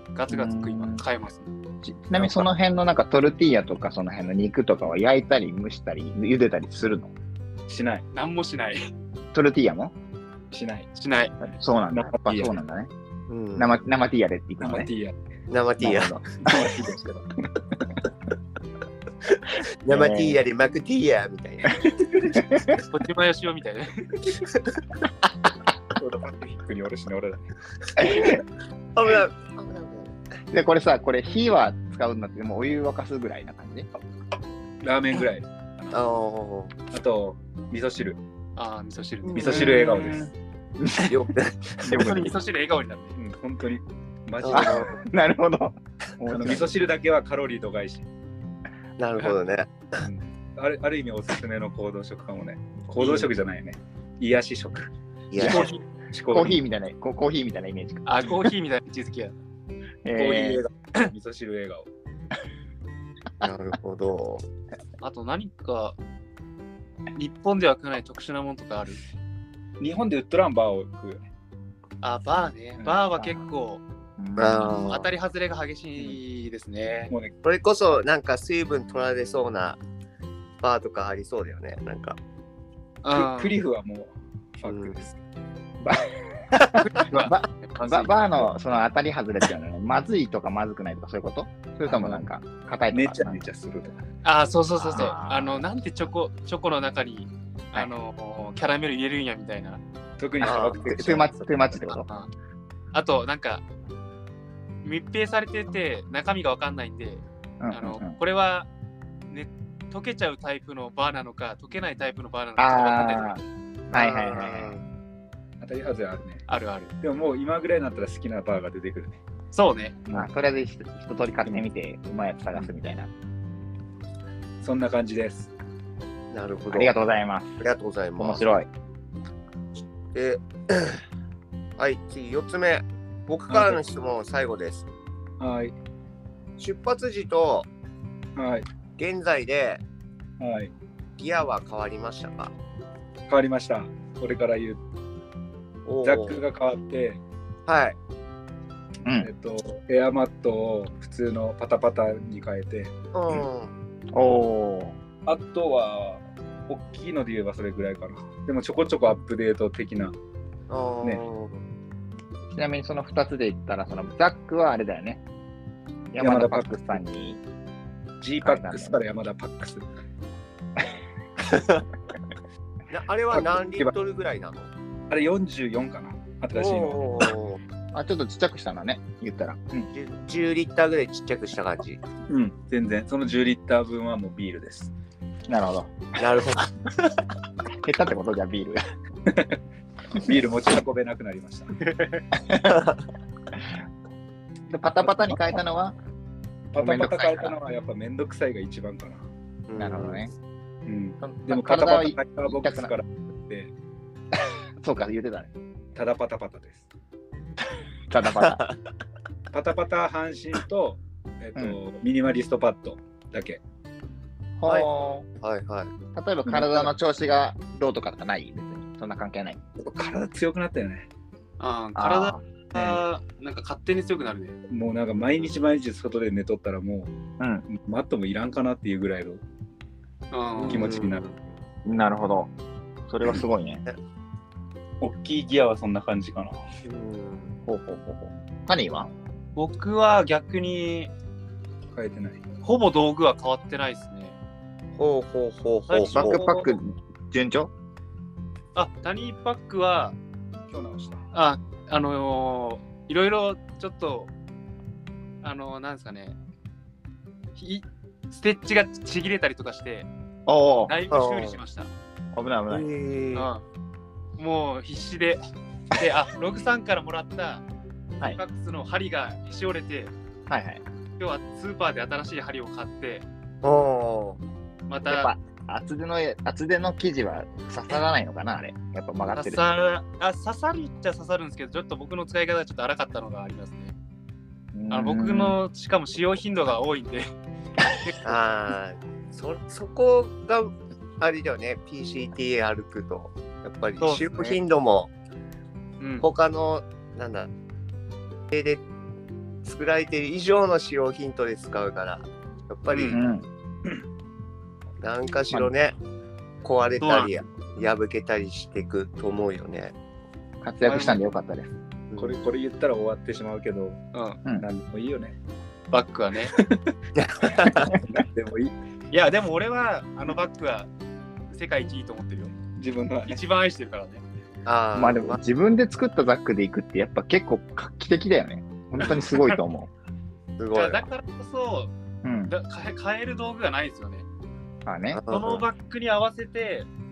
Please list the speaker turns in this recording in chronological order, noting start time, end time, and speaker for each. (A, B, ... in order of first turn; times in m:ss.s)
0:00.1-0:01.5 A
0:00.3-0:01.0 B
0:01.8-0:07.1 B
0:02.1-0:02.5 C
0:07.7-0:08.0 C
0:08.1-0:08.8 A
0:09.3-0:09.9 B
0:10.5-0:10.9 C
0:10.9-0:11.3 A
0:11.4-0:12.9 B
0:11.9-0:12.5 C
0:13.3-0:13.7 D
0:13.6-0:14.9 B
0:14.6-0:15.2 C
0:15.5-0:16.1 D
0:15.8-0:16.7 B
0:16.4-0:17.3 C
0:19.3-0:21.9 D
0:19.9-0:20.4 B
0:22.1-0:22.4 C
0:22.3-0:22.8 B
0:22.9-0:24.2 A
0:26.0-0:27.5 C
0:28.0-0:28.4 B
0:28.0-0:28.4 D
0:28.9-0:30.1 D
0:30.5-0:33.9 B
0:34.8-0:36.0 C
0:35.9-0:36.7 D
0:36.9-0:38.2 C
0:38.6-0:40.1 A
0:39.2-0:39.7 D
0:39.3-0:40.3 C
0:39.4-0:41.2 B
0:41.0-0:42.2 D
0:41.8-0:42.4 B
0:41.9-0:43.2 A
0:43.2-0:45.0 C
0:44.4-0:44.9 D
0:44.5-0:46.8 B
0:46.3-0:48.1 C
0:49.0-0:50.0 D
0:50.0-0:56.6 C
0:53.0-0:53.3 D
0:55.3-0:55.8 D
0:55.4-0:55.7 B
0:55.5-0:55.8 A
0:56.3-0:58.3 B
0:58.0-0:59.3 A
1:00.0-1:00.6 B
1:00.1-1:01.9 C
1:03.4-1:04.4 D
1:05.0-1:06.0 A
1:07.1-1:09.0 A
1:09.8-1:11.2 C
1:12.0-1:13.8 A
1:14.2-1:15.0 B
1:14.4-1:15.1 D
1:14.8-1:17.1 A
1:17.4-1:19.8 D
1:20.6-1:22.2 D
1:23.0-1:23.5 A
1:23.1-1:25.2 C
1:24.6-1:25.0 D
1:25.8-1:33.4 B
1:26.8-1:28.2 A
1:31.9-1:32.2 C
1:32.9-1:34.0 C
1:34.2-1:39.8 A
1:34.8-1:35.6 B
1:40.2-1:41.5 C
1:40.4-1:40.8 D
1:40.8-1:42.0 B
1:42.0-1:42.3 A
1:42.9-1:43.6 A
1:44.8-1:48.7 A
1:47.6-1:48.2 B
1:49.3-1:53.4 A
1:52.6-1:54.7 B
1:53.9-1:54.8 D
1:55.6-1:56.4 C
1:56.5-1:56.9 A
1:57.0-1:59.2 C
1:59.5-2:00.0 A
2:00.1-2:03.1 B
2:04.6-2:05.5 C
2:06.3-2:06.9 D
2:06.7-2:07.6 B
2:07.6-2:08.4 D
2:08.2-2:08.7 B
2:10.1-2:11.0 D
2:11.8-2:14.8 D
2:13.5-2:13.8 C
2:15.4-2:15.7 C
2:16.6-2:17.7 D
2:18.4-2:18.6 C
2:19.0-2:19.8 D
2:20.4-2:20.7 C
2:21.2-2:22.5 D
2:23.3-2:24.8 C
2:25.8-2:26.4 D
2:26.0-2:27.2 C
2:27.7-2:28.0 D
2:29.0-2:29.3 B
2:29.2-2:33.4 C
2:33.1-2:33.7 D
2:34.1-2:34.9 B
2:35.2-2:40.1 C
2:40.7-2:41.6 D
2:42.5-2:45.2 B
2:46.1-2:47.4 B
2:46.2-2:47.0 C
2:48.2-2:49.8 C
2:48.4-2:49.0 B
2:52.9-2:54.7 D
2:53.3-2:53.9 C
2:55.1-2:57.3 C
2:56.5-2:57.6 D
2:57.9-2:59.9 B
2:59.9-3:02.0 D
3:02.3-3:04.9 C
3:05.5-3:06.0 B
3:06.2-3:07.1 D
3:07.8-3:08.8 B
3:09.3-3:09.6 C
3:10.1-3:11.7 C
3:12.4-3:12.8 B
3:12.6-3:13.0 D
3:14.7-3:15.9 B
3:16.7-3:19.2 C
3:16.8-3:17.5 B
3:19.7-3:20.2 D
3:19.8-3:20.3 B
3:20.8-3:23.7 C
3:21.2-3:22.9 B
3:24.8-3:25.5 B
3:25.9-3:26.8 C
3:28.1-3:28.6 B
3:28.4-3:28.7 D
3:29.5-3:33.6 C
3:34.6-3:35.3 B
3:35.4-3:35.9 D
3:36.1-3:39.6 B
3:36.4-3:36.9 C
3:39.8-3:41.1 C
3:41.6-3:44.6 A
3:41.9-3:43.0 B
3:44.7-3:47.1 C
3:47.4-3:47.6 B
3:47.7-3:49.4 C
3:50.3-3:51.0 A
3:50.6-3:51.5 D
3:50.6-3:51.2 C
3:51.8-3:52.5 B
3:53.1-3:53.8 B
3:55.0-3:56.6 C
3:56.8-3:57.5 D
3:57.6-3:59.1 B
3:59.6-4:01.1 A
4:01.9-4:02.4 C
4:02.6-4:04.4 A
4:05.0-4:06.4 D
4:05.9-4:06.8 A
4:06.1-4:07.7 B
4:08.7-4:10.2 A
4:10.7-4:11.2 C
4:11.3-4:14.3 A
4:15.4-4:16.4 A
4:17.6-4:20.1 A
4:20.5-4:20.9 B
4:20.9-4:21.9 A
4:21.1-4:21.6 D
4:22.3-4:22.9 B
4:22.7-4:23.5 D
4:23.3-4:23.6 A
4:24.4-4:25.4 A
4:25.9-4:27.6 A
4:28.2-4:30.1 A
4:30.5-4:30.8 B
4:31.2-4:33.2 A
4:33.6-4:34.4 D
4:34.9-4:35.3 A
4:35.1-4:39.6 B
4:39.3-4:43.9 A
4:44.7-4:45.6 B
4:44.9-4:47.3 A
4:48.2-4:55.1 D
4:54.0-4:54.6 A
4:56.0-4:56.3 A
4:56.2-4:57.5 D
4:58.5-4:58.8 D
4:59.6-5:03.2 D
5:02.9-5:03.2 A
5:03.1-5:03.4 B
5:05.0-5:06.0 D
5:06.6-5:09.9 D
5:07.0-5:07.3 A
5:10.6-5:11.7 B
5:10.8-5:11.2 A
5:12.1-5:12.5 D
5:12.2-5:14.0 C
5:14.1-5:14.4 A
5:14.6-5:15.4 C
5:15.9-5:16.5 A
5:16.5-5:16.8 C
5:17.1-5:17.9 D
5:17.9-5:18.7 C
5:19.1-5:20.9 A
5:21.5-5:22.5 A
5:22.8-5:23.4 C
5:23.2-5:24.2 A
5:24.6-5:25.4 D
5:24.9-5:29.9 B
5:29.0-5:29.3 A
5:30.6-5:31.0 D
5:30.7-5:31.9 A
5:32.2-5:32.5 B
5:32.5-5:34.2 A
5:34.8-5:35.2 B
5:35.1-5:35.6 D
5:35.3-5:36.9 A